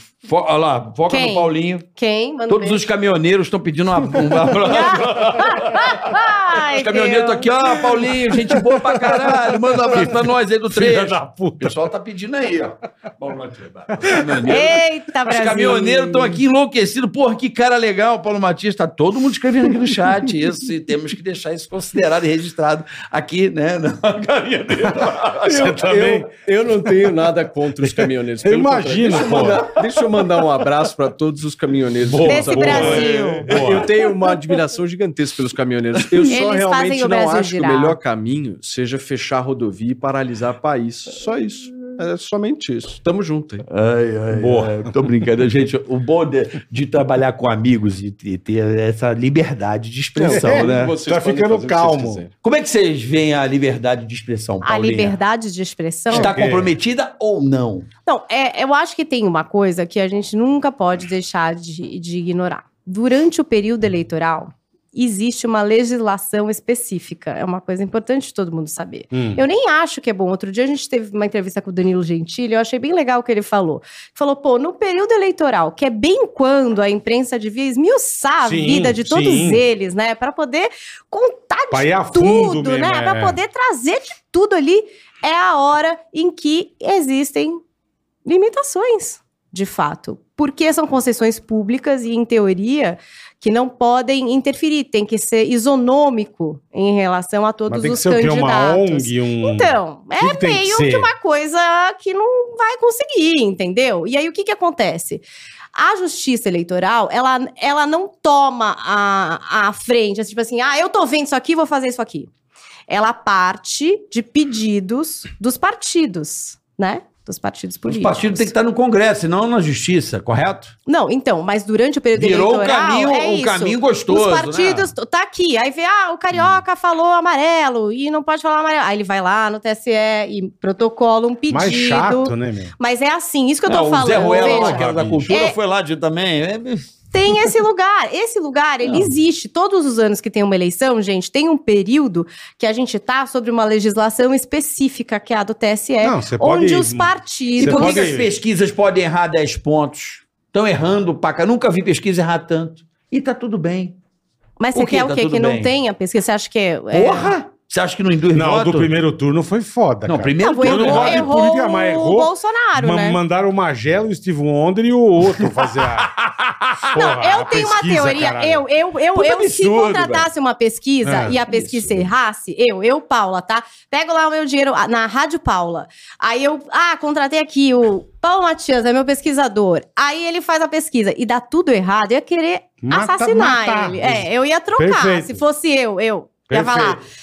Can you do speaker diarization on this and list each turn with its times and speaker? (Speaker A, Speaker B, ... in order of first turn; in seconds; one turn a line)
Speaker A: 0.2-1.9
Speaker B: 1.1-2.9
Speaker A: 2.5-25.8
Speaker B: 4.7-7.5
Speaker C: 8.8-11.8
Speaker C: 14.0-14.6
Speaker B: 14.4-16.3
Speaker C: 24.8-26.3
Speaker D: 25.5-43.6
Speaker C: 27.8-29.6
Speaker A: 29.1-29.6
Speaker C: 32.0-33.9
Speaker B: 32.2-33.6
Speaker A: 36.0-36.3
Speaker B: 36.3-38.0
Speaker A: 43.7-51.0
Speaker C: 44.3-44.9
Speaker D: 50.2-52.3
Speaker C: 50.3-52.2
Speaker A: 52.4-55.2
Speaker B: 54.6-56.4
Speaker C: 56.1-56.7
Speaker A: 56.1-57.9
Speaker B: 58.1-87.6
Speaker C: 69.1-69.4
Speaker C: 78.5-79.6
Speaker C: 81.7-83.4
Speaker B: 88.2-112.3
Speaker C: 97.7-101.1
Speaker B: 112.9-118.5
Speaker A: 117.8-120.7
Speaker B: 120.9-135.6
Speaker A: 122.1-124.9
Speaker C: 131.5-132.8
Speaker A: 133.7-136.9
Speaker C: 134.1-135.3
Speaker B: 137.1-148.1
Speaker C: 146.0-148.3
Speaker A: 147.6-154.0
Speaker B: 154.6-157.3
Speaker A: 154.7-155.7
Speaker A: 156.9-158.9
Speaker C: 158.3-166.2
Speaker A: 160.1-161.3
Speaker B: 160.4-163.2
Speaker A: 165.8-166.9
Speaker C: 166.8-168.6
Speaker B: 166.9-187.0
Speaker A: 169.2-170.3
Speaker C: 171.0-171.4
Speaker D: 171.4-172.1
Speaker C: 182.8-185.4
Speaker C: 186.5-187.0